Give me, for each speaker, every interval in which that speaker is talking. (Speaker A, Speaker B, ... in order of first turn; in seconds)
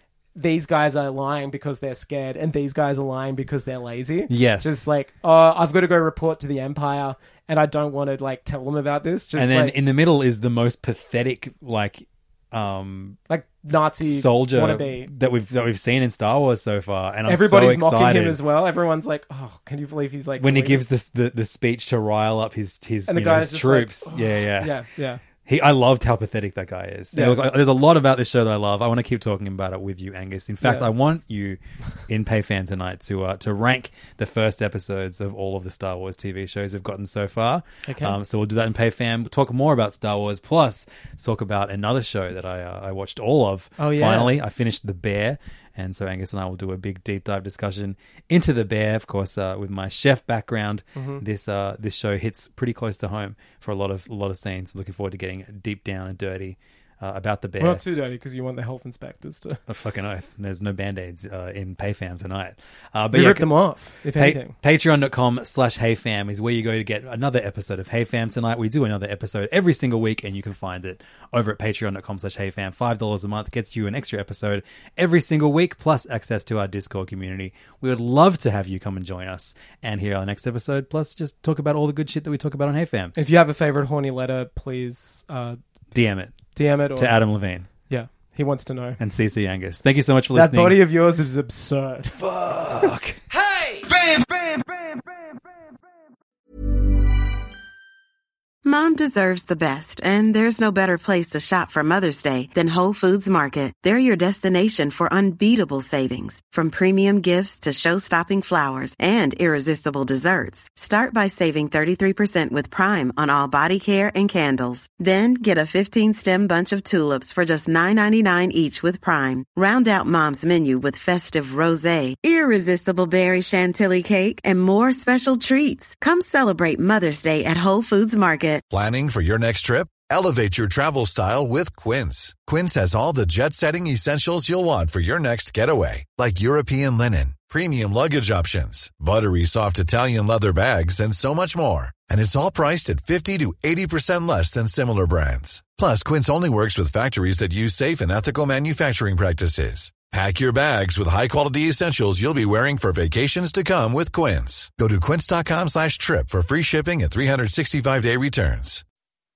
Speaker A: 0.3-9.8, 13.3-15.1, 17.3-20.8, 23.1-25.2, 27.1-27.4, 37.9-38.1, 43.8-44.4, 51.0-51.2, 57.6-59.6, 63.1-64.5, 83.2-85.6, 86.5-87.2, 87.9-89.0, 90.3-92.2, 93.7-94.6
Speaker B: 4.3-4.8, 9.3-13.2, 14.0-18.4, 20.4-24.8, 25.4-57.8, 59.7-83.2, 85.9-87.7, 89.0-90.8, 92.2-93.2
Speaker C: 98.6-128.6
Speaker D: 128.7-158.8